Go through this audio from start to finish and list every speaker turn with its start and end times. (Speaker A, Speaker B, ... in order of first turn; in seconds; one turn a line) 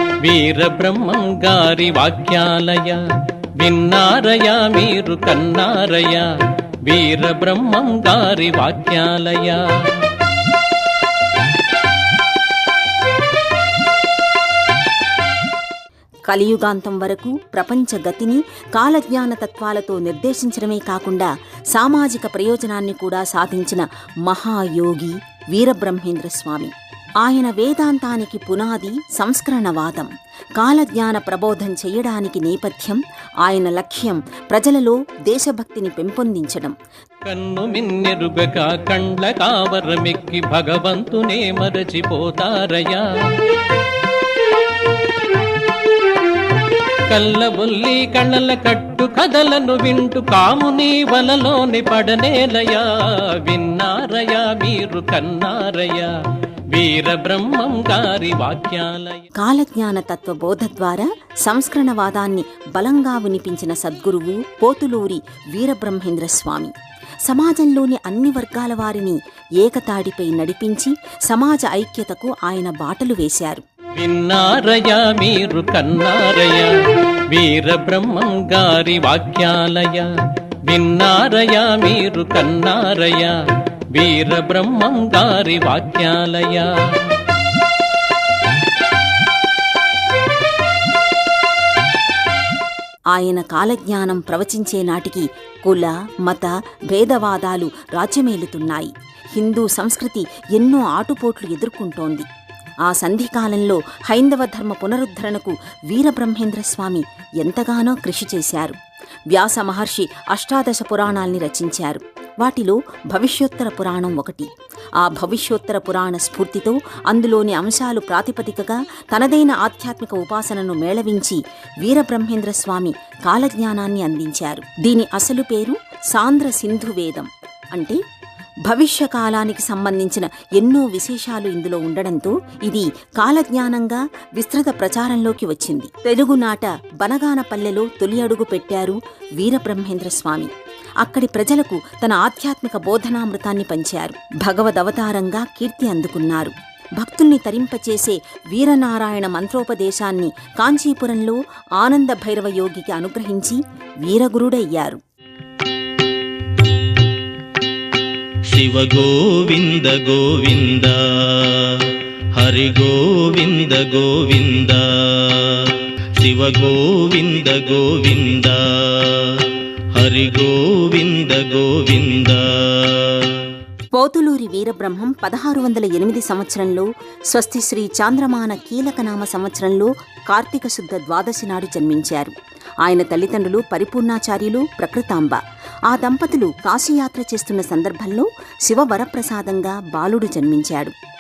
Speaker A: 0.2-3.0
Speaker A: 3.6-6.3
Speaker A: 6.8-10.1
Speaker B: 16.3-36.8
Speaker A: 37.2-43.6
Speaker A: 47.1-56.1
Speaker A: 56.7-59.2
Speaker B: 59.4-66.7
Speaker B: 67.2-73.6
Speaker A: 74.0-76.7
Speaker A: 77.3-80.1
Speaker A: 80.7-83.4
Speaker A: 83.9-87.2
Speaker B: 93.1-102.3
Speaker B: 102.8-108.8
Speaker B: 109.3-114.5
Speaker B: 115.0-128.0
Speaker B: 128.7-140.5
Speaker B: 141.0-155.0
Speaker C: 158.4-173.5
Speaker B: 173.9-190.9